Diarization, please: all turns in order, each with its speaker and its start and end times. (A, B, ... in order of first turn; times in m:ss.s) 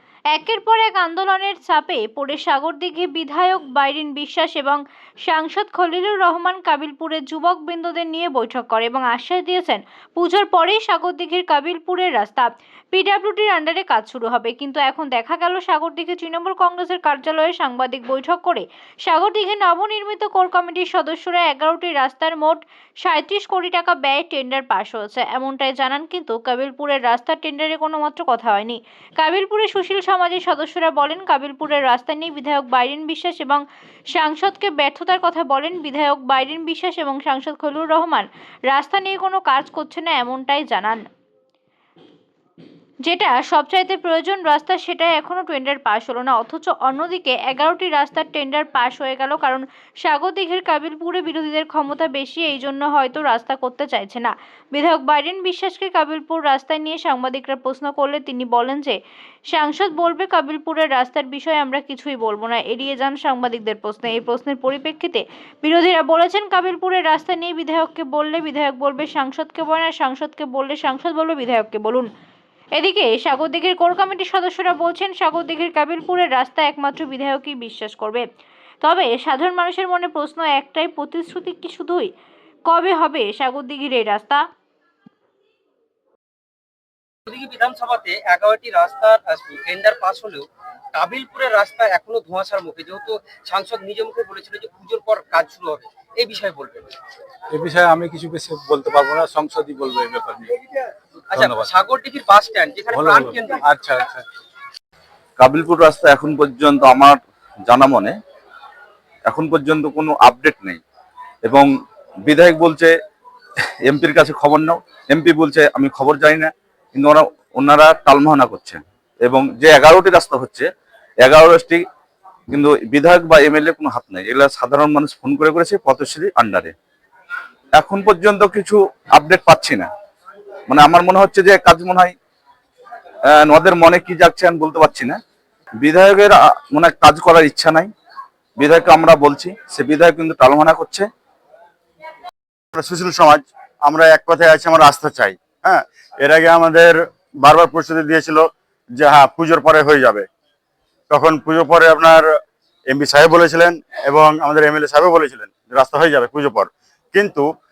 0:00.3-0:33.6 A
0:34.1-0:41.0 A
0:43.0-0:59.0 A
0:59.5-1:12.1 A
1:12.8-1:18.2 A
1:18.8-1:22.1 A
1:22.7-1:24.4 A
1:27.3-1:37.0 B
1:37.5-1:40.4 C
1:40.5-1:40.8 B
1:41.3-1:43.9 B
1:43.0-1:44.2 C
1:45.4-1:48.2 D
1:49.3-1:50.8 D
1:52.2-1:52.9 D
1:53.8-2:00.7 D
2:01.2-2:01.8 D
2:02.5-2:06.7 D
2:07.8-2:09.9 D
2:10.7-2:12.1 D
2:13.3-2:15.2 D
2:15.8-2:17.9 D
2:18.6-2:21.1 D
2:22.7-2:28.4 E
2:29.0-2:30.2 E
2:31.1-2:32.3 E
2:32.9-2:37.5 E